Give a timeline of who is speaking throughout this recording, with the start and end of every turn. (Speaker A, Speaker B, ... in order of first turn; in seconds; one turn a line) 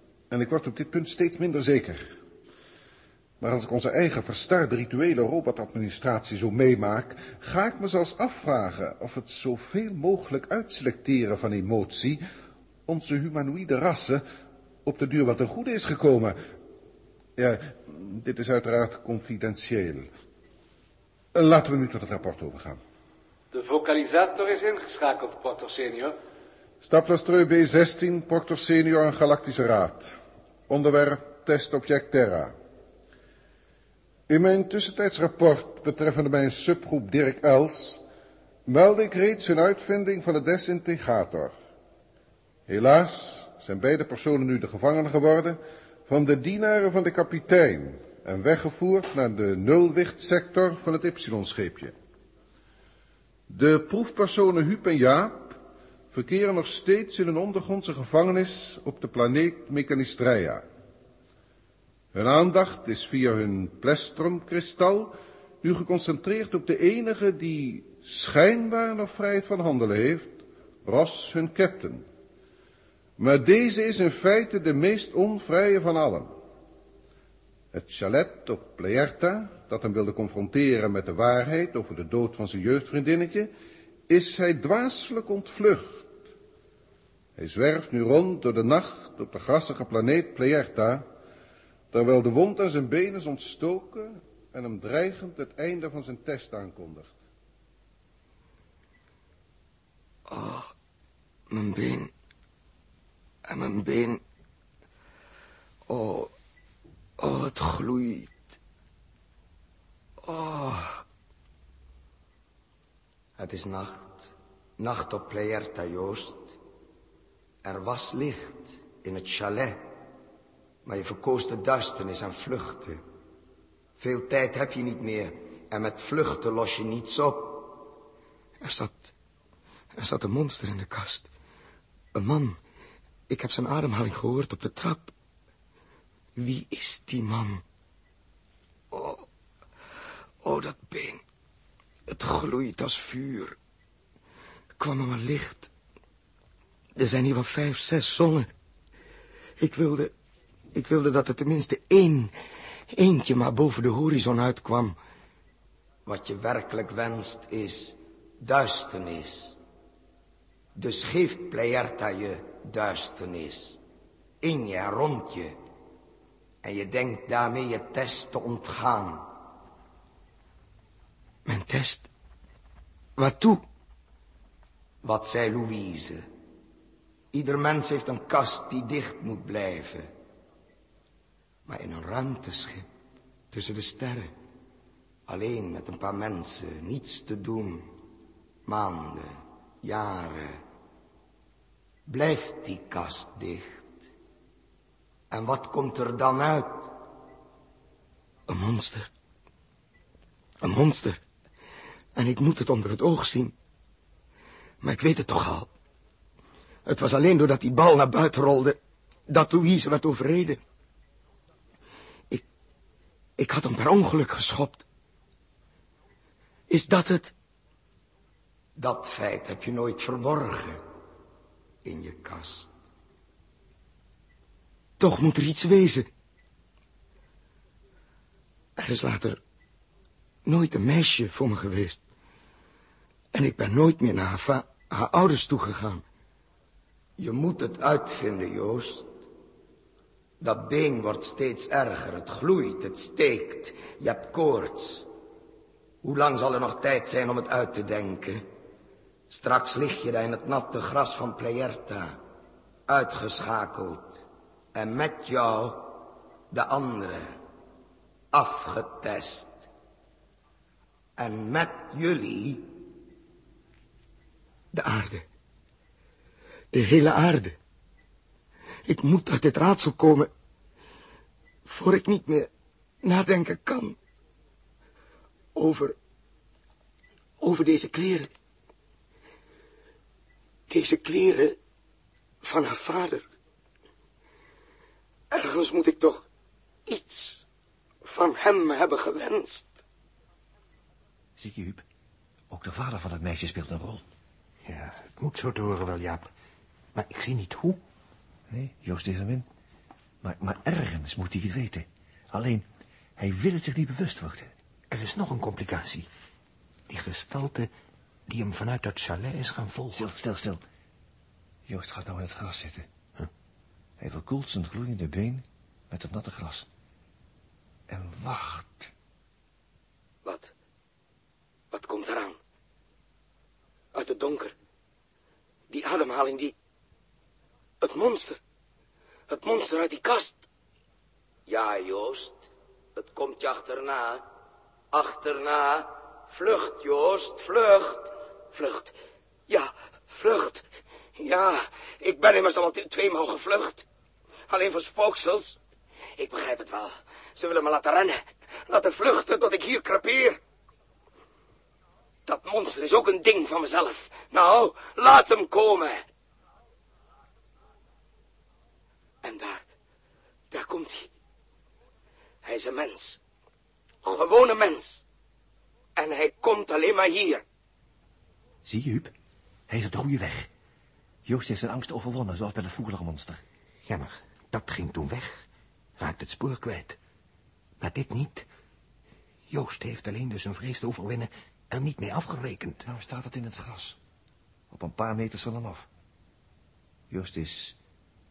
Speaker A: 0.3-2.1
Speaker A: 3.4-12.2
Speaker A: 12.9-14.2
Speaker A: 14.8-16.4
Speaker A: 17.4-20.1
Speaker A: 21.3-22.8
Speaker B: 23.5-26.1
Speaker A: 26.8-30.1
Speaker A: 30.7-32.5
Speaker A: 34.3-38.0
Speaker A: 38.7-41.5
Speaker A: 42.7-51.9
Speaker A: 53.5-55.6
Speaker A: 56.1-60.6
Speaker A: 62.1-72.0
Speaker A: 73.2-76.3
Speaker A: 77.7-83.5
Speaker A: 84.1-86.1
Speaker A: 87.4-91.1
Speaker A: 91.9-97.1
Speaker C: 100.3-100.7
Speaker C: 101.5-102.1
Speaker C: 103.5-104.2
Speaker C: 105.9-106.3
Speaker C: 107.2-108.5
Speaker C: 110.2-111.0
Speaker C: 113.4-116.6
Speaker C: 117.6-119.8
Speaker C: 120.8-123.0
Speaker C: 124.0-127.8
Speaker C: 128.6-129.1
Speaker C: 129.9-131.3
Speaker C: 132.1-132.6
Speaker C: 133.3-135.1
Speaker C: 136.3-137.6
Speaker C: 138.9-139.3
Speaker C: 140.4-141.2
Speaker C: 142.1-143.6
Speaker C: 144.8-145.7
Speaker C: 146.9-148.5
Speaker C: 149.6-150.1
Speaker C: 150.7-152.3
Speaker C: 152.9-155.0
Speaker C: 156.1-159.6
Speaker C: 160.7-163.8
Speaker C: 164.4-165.6
Speaker C: 166.6-169.3
Speaker C: 171.4-172.1
Speaker C: 173.2-173.6
Speaker C: 175.0-176.3
Speaker C: 177.3-180.1
Speaker C: 181.7-182.9
Speaker C: 183.5-184.3
Speaker C: 185.3-187.9
Speaker C: 188.7-190.6
Speaker C: 192.1-194.1
Speaker C: 195.3-197.0
Speaker C: 198.5-199.1
Speaker C: 200.6-201.2
Speaker C: 202.1-203.5
Speaker C: 204.8-205.7
Speaker C: 206.8-210.6
Speaker C: 213.4-214.8
Speaker C: 216.7-217.3
Speaker C: 218.8-220.8
Speaker C: 221.8-222.7
Speaker C: 225.0-226.1
Speaker C: 228.8-229.4
Speaker C: 230.4-232.0
Speaker C: 233.3-236.0
Speaker C: 237.2-239.2
Speaker C: 240.4-245.1
Speaker C: 246.0-248.4
Speaker C: 249.3-252.2
Speaker C: 252.9-256.0
Speaker C: 256.5-257.4
Speaker C: 258.3-259.7
Speaker C: 261.2-262.7
Speaker C: 264.7-265.2
Speaker C: 266.7-267.6
Speaker C: 268.9-270.3
Speaker C: 271.6-272.5
Speaker C: 273.0-274.0
Speaker C: 275.5-276.0
Speaker C: 277.4-278.3
Speaker C: 280.7-281.6
Speaker C: 282.4-283.2
Speaker C: 285.3-286.2
Speaker C: 286.9-287.4
Speaker C: 288.0-289.8
Speaker D: 291.4-291.8
Speaker D: 292.5-294.0
Speaker E: 294.6-296.3
Speaker E: 296.9-297.8
Speaker D: 298.5-299.4
Speaker D: 300.2-302.6
Speaker D: 303.2-304.5
Speaker E: 304.9-306.1
Speaker E: 306.9-307.7
Speaker E: 308.3-310.1
Speaker D: 309.9-310.6
Speaker D: 311.7-312.9
Speaker D: 314.0-316.7
Speaker D: 317.9-318.9
Speaker C: 320.2-320.5
Speaker C: 321.7-322.4
Speaker C: 323.9-324.5
Speaker C: 325.7-326.5
Speaker C: 327.8-328.4
Speaker C: 329.3-330.4
Speaker C: 331.5-334.3
Speaker C: 334.9-338.9
Speaker C: 339.5-343.9
Speaker C: 344.5-345.6
Speaker C: 346.2-350.4
Speaker C: 352.2-356.0
Speaker C: 359.2-359.6
Speaker C: 360.5-361.1
Speaker C: 362.4-363.2
Speaker C: 364.0-365.0
Speaker C: 365.9-367.4
Speaker D: 368.6-369.1
Speaker E: 369.8-370.5
Speaker D: 371.2-373.4
Speaker E: 373.9-375.4
Speaker E: 376.0-377.0
Speaker E: 377.8-378.5
Speaker E: 379.5-382.8
Speaker D: 382.9-384.0
Speaker D: 384.7-385.9
Speaker D: 387.1-387.8